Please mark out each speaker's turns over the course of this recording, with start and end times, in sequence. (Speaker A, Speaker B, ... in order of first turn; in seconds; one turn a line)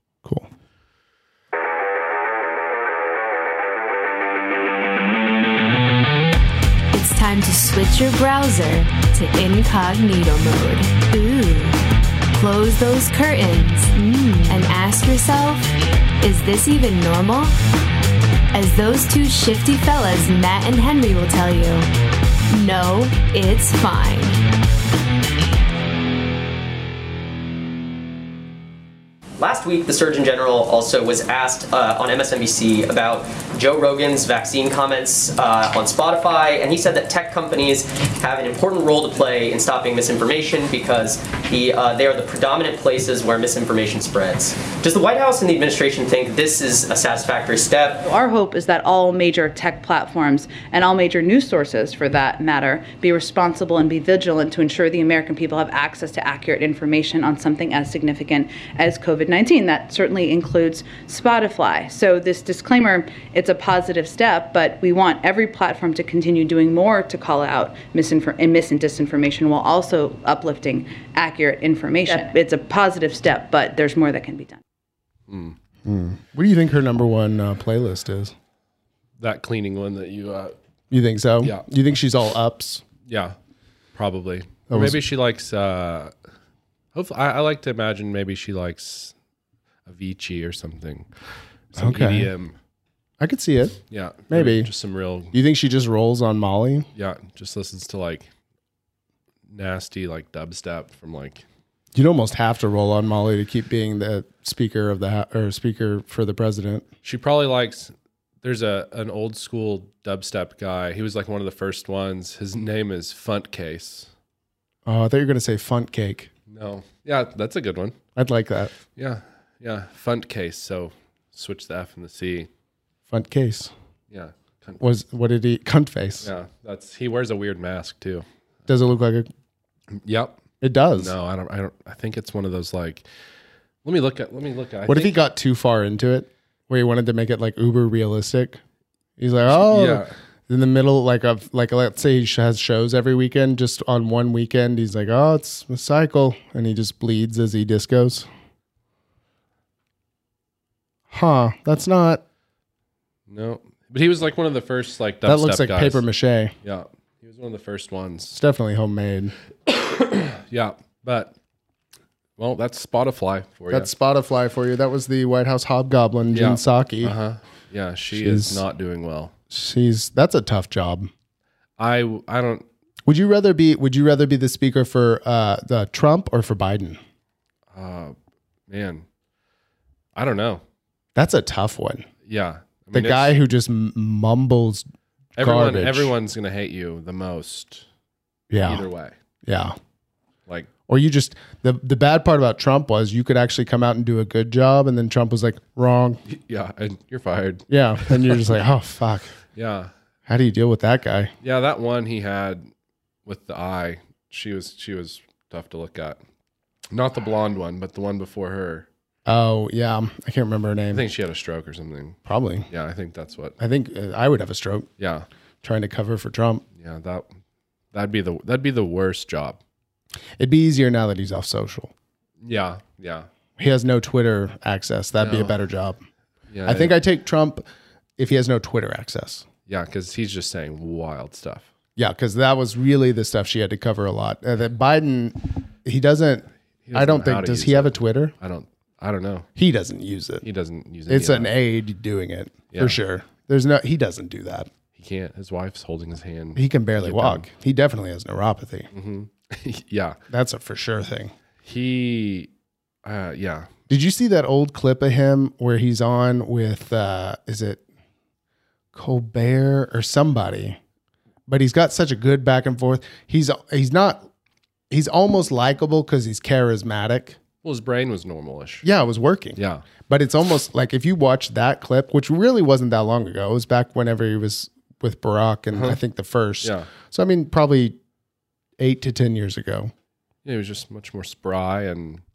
Speaker A: 6.9-11.8
Speaker A: 12.3-17.5
Speaker A: 18.5-21.9
Speaker A: 22.5-24.4
Speaker B: 29.4-48.0
Speaker C: 48.0-74.6
Speaker D: 75.3-75.6
Speaker E: 75.8-78.3
Speaker D: 79.2-80.5
Speaker E: 80.9-82.8
Speaker D: 83.0-83.4
Speaker D: 84.0-86.1
Speaker E: 84.7-85.0
Speaker D: 86.9-89.1
Speaker D: 89.9-91.1
Speaker D: 91.7-92.6
Speaker E: 91.8-92.3
Speaker E: 93.2-94.7
Speaker D: 93.9-95.3
Speaker E: 95.3-96.9
Speaker D: 96.9-98.3
Speaker D: 99.5-101.5
Speaker E: 102.0-106.9
Speaker D: 107.0-114.1
Speaker E: 114.9-116.3
Speaker D: 116.5-118.0
Speaker E: 118.2-118.7
Speaker D: 119.0-122.5
Speaker E: 123.1-123.7
Speaker D: 124.1-124.8
Speaker E: 124.8-126.3
Speaker D: 126.2-128.3
Speaker E: 128.7-129.3
Speaker D: 129.9-130.4
Speaker E: 130.6-131.2
Speaker D: 131.0-133.1
Speaker D: 133.8-135.2
Speaker E: 134.9-138.6
Speaker E: 139.2-148.3
Speaker D: 139.5-140.1
Speaker E: 151.1-152.2
Speaker D: 153.3-156.0
Speaker E: 155.2-156.6
Speaker D: 156.6-158.4
Speaker E: 158.3-159.3
Speaker D: 159.7-161.3
Speaker D: 162.4-163.9
Speaker E: 163.7-167.2
Speaker D: 166.3-169.3
Speaker E: 168.1-168.6
Speaker E: 169.5-171.1
Speaker D: 171.8-172.7
Speaker E: 173.1-177.0
Speaker D: 177.7-178.2
Speaker D: 178.7-179.1
Speaker D: 180.2-180.6
Speaker E: 181.2-182.1
Speaker D: 182.2-183.3
Speaker E: 182.9-184.9
Speaker D: 185.4-187.9
Speaker E: 185.4-186.1
Speaker E: 188.5-188.9
Speaker D: 188.6-189.2
Speaker E: 189.4-189.8
Speaker E: 190.9-196.2
Speaker D: 196.3-198.4
Speaker E: 197.7-199.3
Speaker D: 199.6-199.9
Speaker E: 200.3-201.3
Speaker D: 201.4-202.7
Speaker D: 203.3-206.2
Speaker D: 206.9-208.9
Speaker E: 209.3-211.1
Speaker D: 210.9-213.6
Speaker E: 212.3-212.7
Speaker E: 213.6-214.9
Speaker D: 215.0-215.3
Speaker E: 215.6-216.7
Speaker D: 216.8-217.3
Speaker D: 217.9-219.6
Speaker E: 220.4-221.9
Speaker D: 222.4-223.3
Speaker E: 223.6-226.0
Speaker D: 225.2-225.6
Speaker D: 226.5-227.0
Speaker E: 226.7-227.6
Speaker E: 228.2-229.5
Speaker D: 229.7-231.7
Speaker E: 232.0-238.3
Speaker D: 236.9-239.5
Speaker E: 239.6-240.4
Speaker D: 240.4-241.5
Speaker E: 241.1-244.7
Speaker D: 242.7-243.0
Speaker D: 245.0-247.5
Speaker E: 246.6-248.9
Speaker D: 248.9-250.2
Speaker E: 250.3-251.3
Speaker D: 251.6-252.5
Speaker D: 253.0-253.7
Speaker E: 253.9-257.8
Speaker E: 258.9-260.8
Speaker E: 261.5-264.3
Speaker E: 264.9-267.4
Speaker D: 267.6-268.9
Speaker E: 268.8-278.0
Speaker D: 269.6-269.9
Speaker D: 275.7-276.0
Speaker D: 276.6-276.9
Speaker E: 278.8-279.9
Speaker D: 280.4-282.2